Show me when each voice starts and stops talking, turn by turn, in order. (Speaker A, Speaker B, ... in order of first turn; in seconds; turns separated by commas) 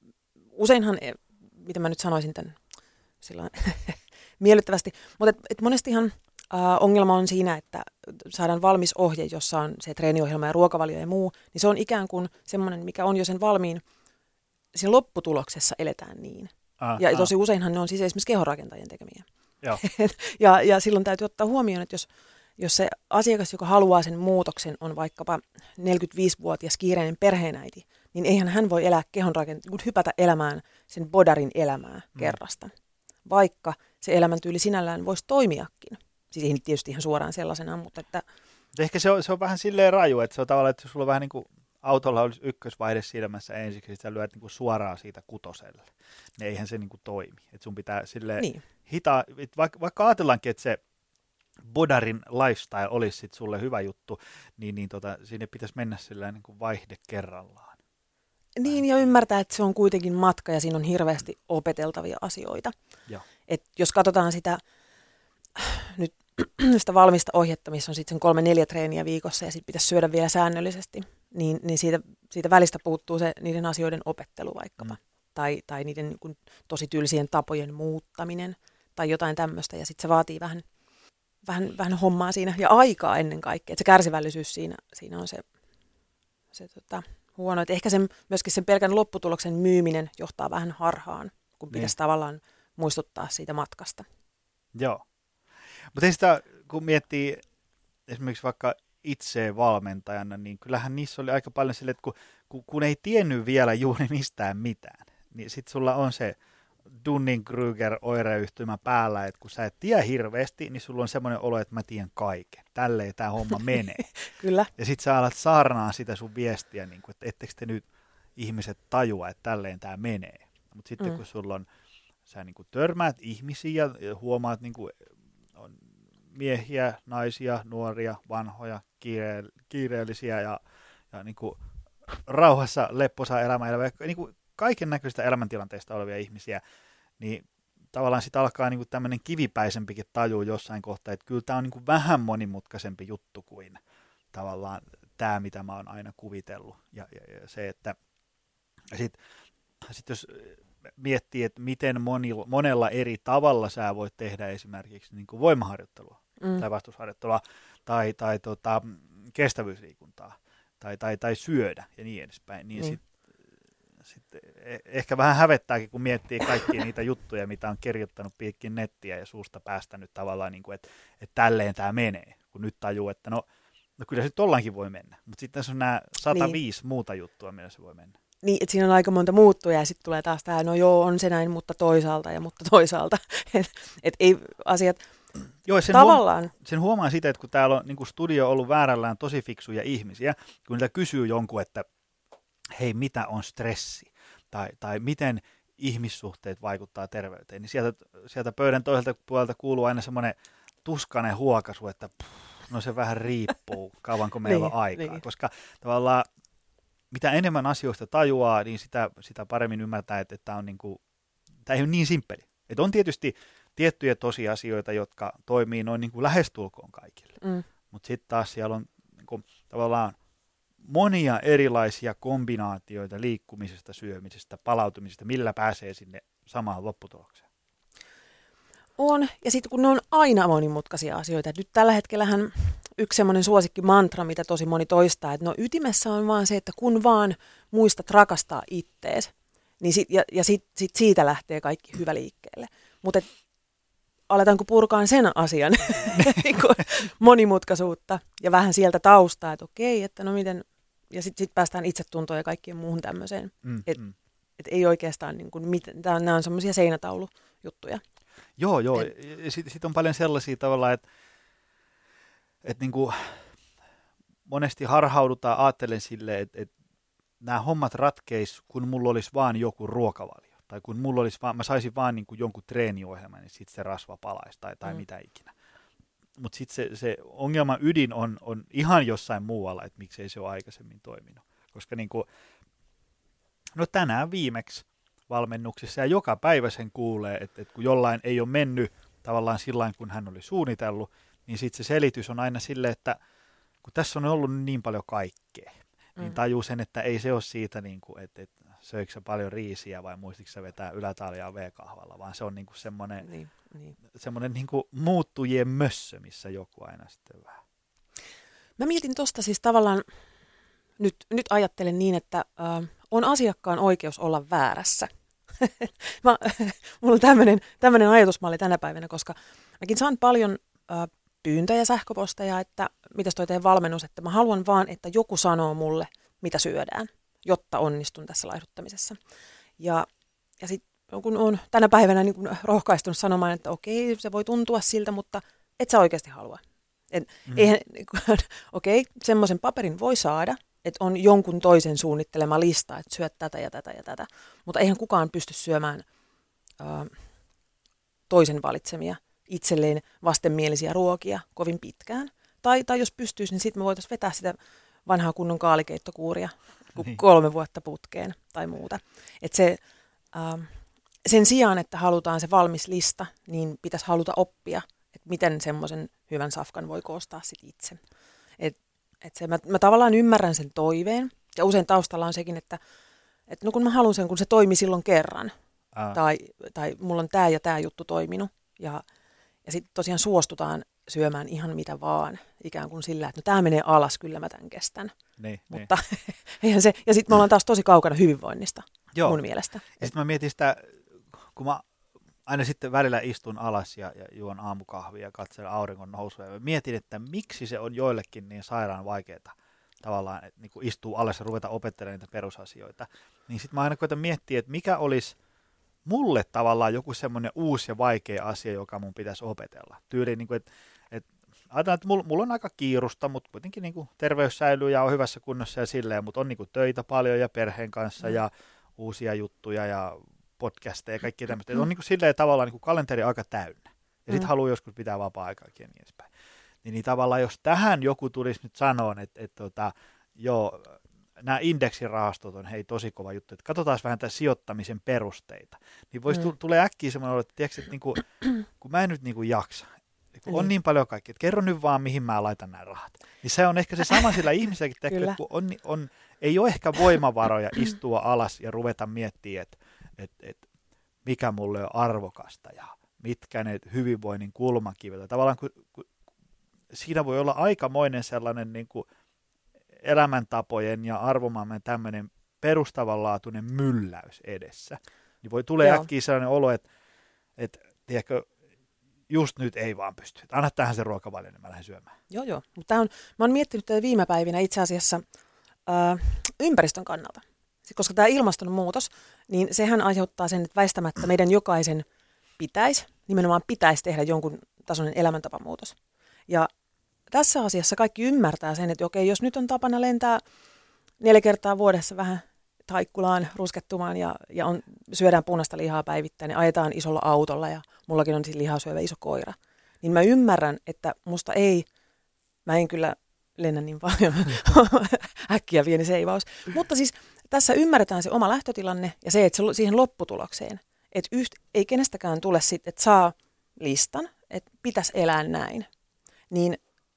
Speaker A: 0.6-2.6, Speaker A: 3.2-13.8, Speaker A: 14.7-32.7, Speaker B: 16.8-17.3, Speaker A: 33.2-38.2, Speaker B: 38.7-45.9, Speaker B: 46.4-50.8, Speaker B: 51.6-57.8, Speaker A: 58.5-62.7, Speaker A: 63.5-64.6, Speaker A: 65.5-80.6, Speaker A: 81.4-85.4, Speaker A: 86.5-94.0, Speaker B: 94.7-95.0, Speaker B: 95.8-97.4, Speaker B: 98.1-106.4, Speaker B: 106.9-114.0, Speaker A: 114.0-114.7, Speaker B: 114.8-117.8, Speaker B: 118.3-121.7, Speaker B: 122.3-125.0, Speaker B: 125.5-130.6, Speaker B: 131.1-136.6, Speaker B: 137.2-143.8, Speaker B: 144.3-147.9, Speaker B: 148.9-149.2, Speaker B: 149.8-163.0, Speaker B: 164.0-173.4, Speaker B: 174.0-178.1, Speaker A: 176.3-176.6, Speaker A: 178.4-185.0, Speaker B: 185.7-191.8, Speaker A: 185.9-186.5, Speaker B: 192.7-206.3, Speaker A: 204.4-205.2, Speaker B: 207.1-211.0, Speaker B: 211.6-217.4, Speaker B: 217.9-220.2, Speaker B: 220.8-227.4, Speaker A: 229.0-243.3, Speaker A: 244.3-254.0, Speaker B: 253.6-254.1, Speaker A: 254.6-258.0, Speaker B: 258.6-261.0, Speaker B: 262.6-263.5, Speaker B: 264.5-266.7, Speaker B: 267.4-275.5, Speaker B: 276.4-282.3, Speaker B: 283.7-293.2, Speaker B: 293.8-303.3, Speaker A: 303.2-303.9, Speaker B: 304.1-307.6, Speaker A: 308.8-310.0, Speaker A: 311.0-315.1, Speaker A: 315.6-329.2, Speaker A: 329.8-330.1, Speaker A: 330.6-346.0, Speaker A: 346.8-347.1, Speaker A: 348.3-359.8, Speaker A: 360.3-360.7, Speaker A: 361.2-368.0, Speaker A: 368.6-372.8, Speaker A: 373.5-375.5, Speaker A: 376.1-379.0, Speaker A: 379.6-385.1, Speaker B: 385.4-385.9, Speaker A: 385.7-390.1, Speaker B: 389.1-389.4, Speaker B: 390.0-391.8, Speaker B: 392.4-405.4, Speaker B: 406.1-426.3, Speaker B: 426.8-450.6, Speaker B: 451.2-456.1, Speaker B: 456.9-459.1, Speaker B: 460.0-466.8, Speaker A: 465.8-466.1, Speaker B: 467.6-468.5, Speaker B: 469.3-472.1, Speaker A: 472.3-475.2, Speaker A: 475.9-482.1, Speaker A: 482.6-485.9, Speaker A: 487.3-490.4, Speaker A: 491.2-501.9, Speaker A: 502.6-515.9, Speaker A: 516.5-516.8